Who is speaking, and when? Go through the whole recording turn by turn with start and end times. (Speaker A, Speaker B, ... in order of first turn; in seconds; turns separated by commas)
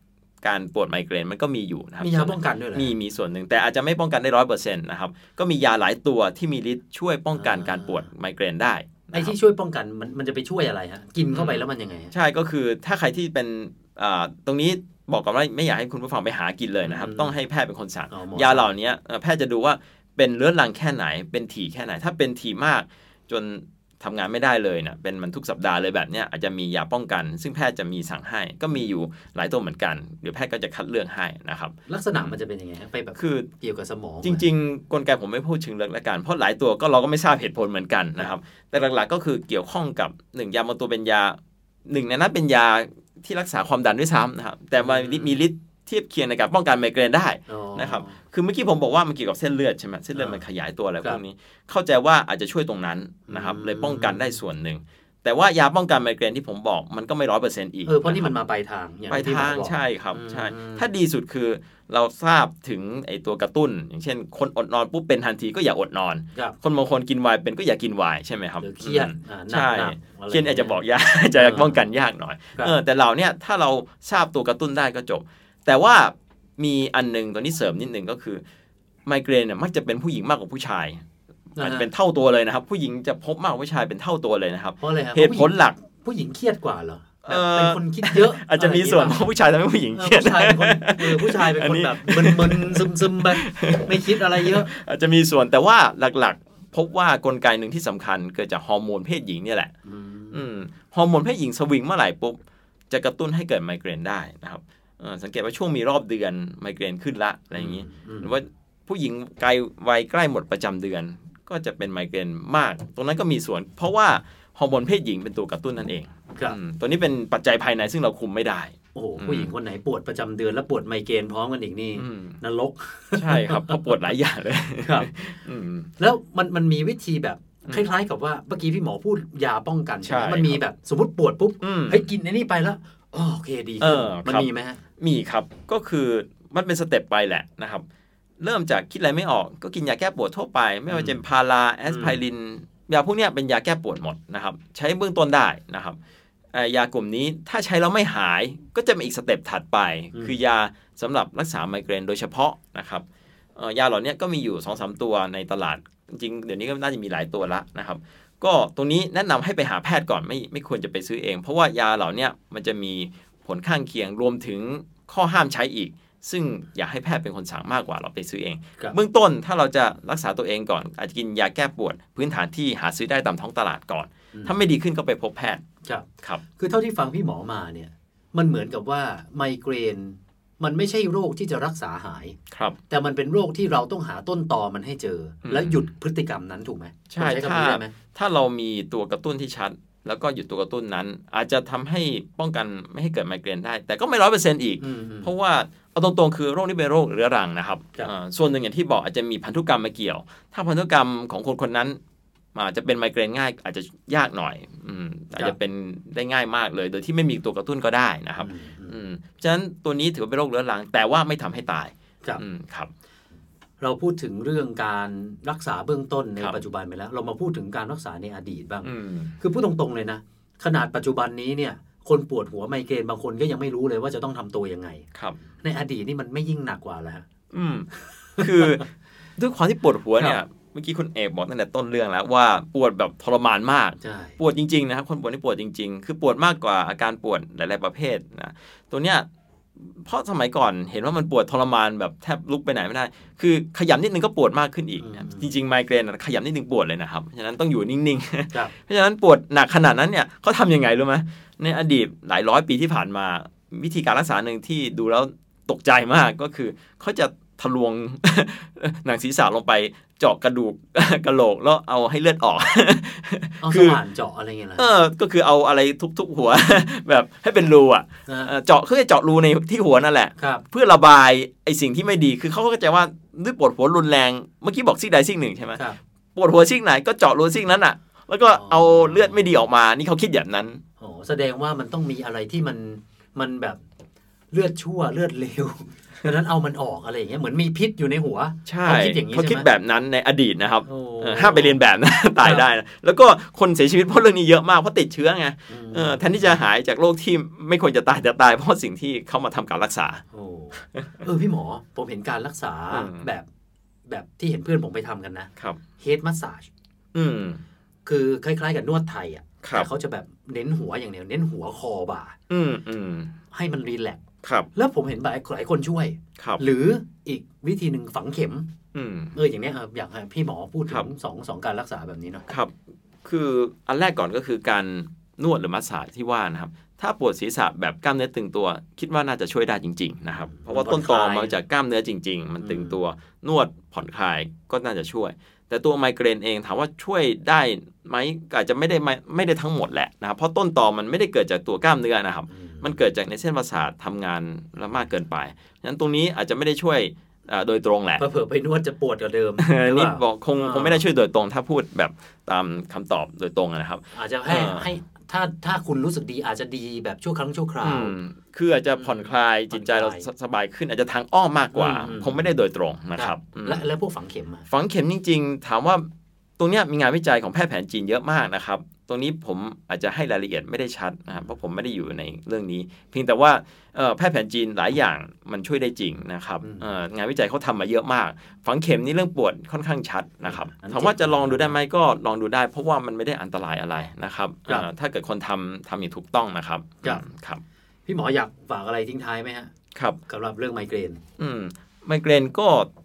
Speaker A: 0.4-9.3, Speaker B: 2.0-2.9, Speaker B: 7.3-8.1, Speaker B: 9.1-12.1, Speaker A: 11.3-32.4, Speaker B: 16.8-17.3, Speaker B: 18.1-18.7, Speaker B: 31.9-34.5, Speaker A: 33.1-33.5, Speaker A: 34.2-58.3, Speaker B: 44.8-45.4, Speaker B: 47.5-48.1, Speaker B: 50.1-50.4, Speaker B: 53.3-54.4, Speaker B: 57.9-60.9, Speaker A: 59.1-78.4, Speaker B: 68.6-70.8, Speaker B: 71.3-71.8, Speaker A: 79.1-81.0, Speaker B: 81.6-81.9, Speaker A: 81.6-85.8, Speaker B: 84.8-89.2, Speaker A: 87.2-99.7, Speaker B: 89.9-94.7, Speaker B: 99.8-100.4, Speaker A: 100.3-102.4, Speaker A: 102.9-119.5, Speaker B: 107.5-108.4, Speaker B: 118.9-124.0, Speaker A: 122.0-122.4, Speaker A: 123.1-125.9, Speaker B: 124.8-125.1, Speaker B: 126.0-134.8, Speaker A: 130.0-130.6, Speaker A: 131.6-132.1, Speaker A: 133.8-137.8, Speaker A: 138.4-146.0, Speaker B: 140.9-141.2, Speaker B: 141.9-142.2, Speaker A: 146.5-153.0, Speaker A: 153.6-175.6, Speaker B: 175.8-182.3, Speaker A: 182.5-182.8, Speaker B: 182.9-187.9, Speaker A: 185.4-185.9, Speaker A: 187.1-202.0, Speaker B: 194.8-195.3, Speaker A: 202.5-212.9, Speaker B: 208.4-209.0, Speaker B: 213.8-225.1, Speaker A: 218.8-219.3, Speaker B: 225.6-227.2, Speaker A: 227.5-227.9, Speaker B: 228.1-228.8, Speaker A: 228.4-239.2, Speaker B: 234.0-234.4, Speaker A: 239.8-264.0, Speaker B: 245.0-245.5, Speaker B: 263.6-264.9, Speaker A: 264.8-275.8, Speaker B: 268.3-268.6, Speaker B: 270.4-270.6, Speaker A: 276.4-280.8, Speaker B: 278.5-279.4, Speaker B: 281.0-283.8, Speaker B: 284.5-289.7, Speaker A: 288.6-300.2, Speaker B: 290.8-291.8, Speaker B: 292.4-292.7, Speaker B: 295.7-296.6, Speaker B: 300.3-303.5, Speaker A: 302.9-303.3, Speaker B: 304.1-306.7, Speaker A: 307.1-307.6, Speaker B: 308.0-312.4, Speaker A: 309.6-309.9, Speaker A: 312.5-313.3, Speaker B: 313.5-314.2, Speaker A: 314.4-314.7, Speaker B: 314.7-318.7, Speaker A: 316.4-316.6, Speaker A: 318.9-319.4, Speaker B: 319.3-322.5, Speaker A: 322.5-348.2, Speaker B: 330.5-331.6, Speaker B: 332.6-333.0, Speaker B: 342.5-343.0, Speaker B: 348.2-351.1, Speaker A: 349.6-354.9, Speaker B: 354.1-358.2, Speaker A: 357.8-363.9, Speaker B: 359.0-360.3, Speaker B: 361.7-362.6, Speaker B: 363.1-364.6, Speaker A: 364.7-366.1, Speaker A: 366.6-387.6, Speaker B: 376.6-376.9, Speaker B: 380.4-381.8, Speaker B: 388.1-389.7, Speaker A: 389.9-390.2, Speaker B: 390.3-391.2, Speaker A: 391.4-392.9